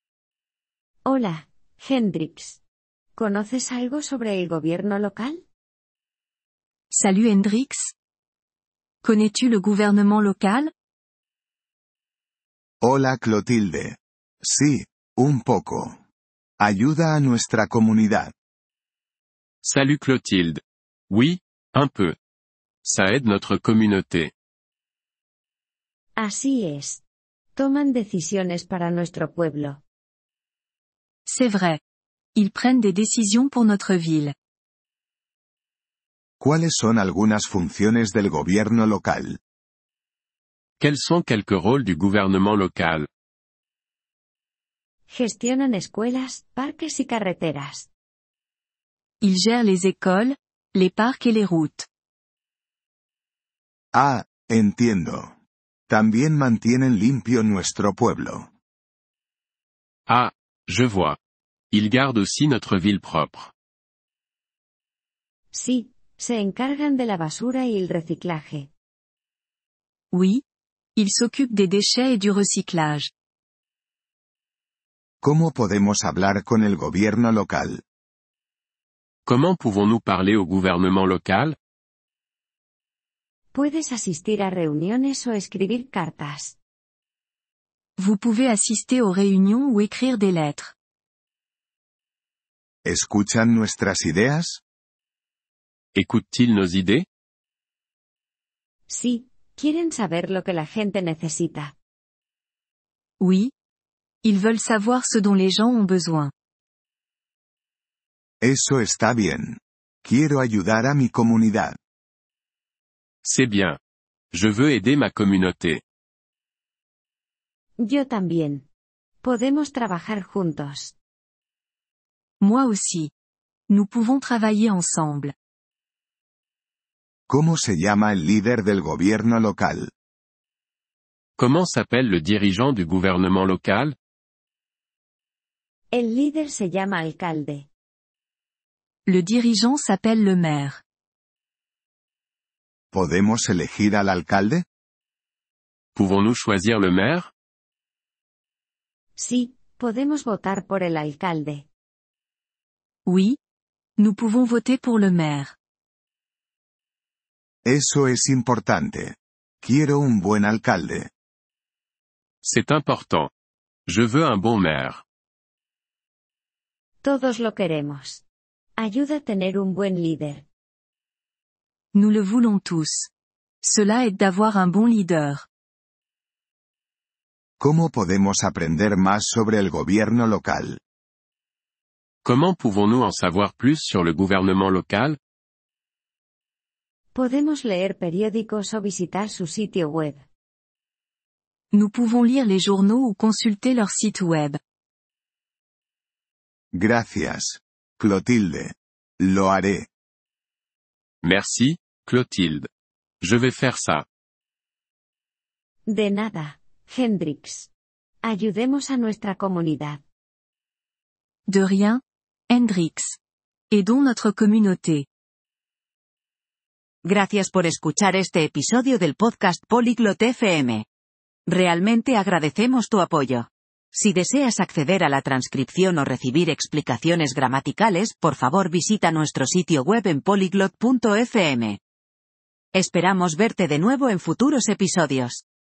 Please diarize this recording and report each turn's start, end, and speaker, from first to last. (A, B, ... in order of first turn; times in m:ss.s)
0:01.0-0:02.6 A
0:03.2-0:05.4 A
0:06.9-0:07.9 B
0:09.0-0:10.7 B
0:12.8-0:16.0 C
0:16.6-0:18.3 C
0:19.6-0:22.2 D
0:22.8-0:24.3 D
0:26.2-0:27.0 A
0:27.6-0:29.8 A
0:31.3-0:31.8 B
0:32.3-0:34.3 B
0:36.4-0:39.4 C
0:40.8-0:43.1 D
0:45.1-0:47.9 A
0:49.2-0:51.9 B
0:53.9-0:55.4 C
0:55.9-0:58.5 C
1:00.1-1:01.2 D
1:01.7-1:03.5 D
1:05.5-1:08.7 A
1:10.1-1:10.4 B
1:11.0-1:13.1 B
1:15.2-1:17.8 C
1:19.2-1:21.6 D
1:23.5-1:26.6 A
1:28.0-1:30.7 B
1:32.8-1:34.6 C
1:35.9-1:37.0 D
1:38.9-1:41.7 A
1:43.2-1:43.5 B
1:44.2-1:46.3 B
1:48.4-1:51.8 C
1:53.2-1:53.8 D
1:54.3-1:55.8 D
1:57.8-1:58.6 A
1:59.2-2:00.9 A
2:02.4-2:03.1 B
2:03.7-2:05.3 B
2:07.3-2:09.9 C
2:11.4-2:14.0 D
2:15.9-2:17.7 A
2:19.0-2:20.8 B
2:22.9-2:24.6 C
2:25.9-2:27.3 D
2:29.2-2:31.6 A
2:33.0-2:33.4 B
2:34.0-2:35.5 B
2:37.6-2:41.1 C
2:42.4-2:43.3 D
2:43.9-2:45.0 D
2:47.0-2:48.2 A
2:48.8-2:50.4 A
2:51.9-2:53.1 B
2:53.6-2:55.4 B
2:57.6-3:00.8 C
3:02.2-3:05.2 D
3:07.1-3:10.2 A
3:11.7-3:14.6 B
3:16.7-3:19.9 C
3:21.2-3:22.7 D
3:23.2-3:24.0 D
3:25.9-3:27.7 A
3:28.2-3:30.0 A
3:31.5-3:33.2 B
3:33.7-3:35.0 B
3:37.0-3:40.8 E
3:41.5-3:51.8 E
3:52.7-3:55.4 E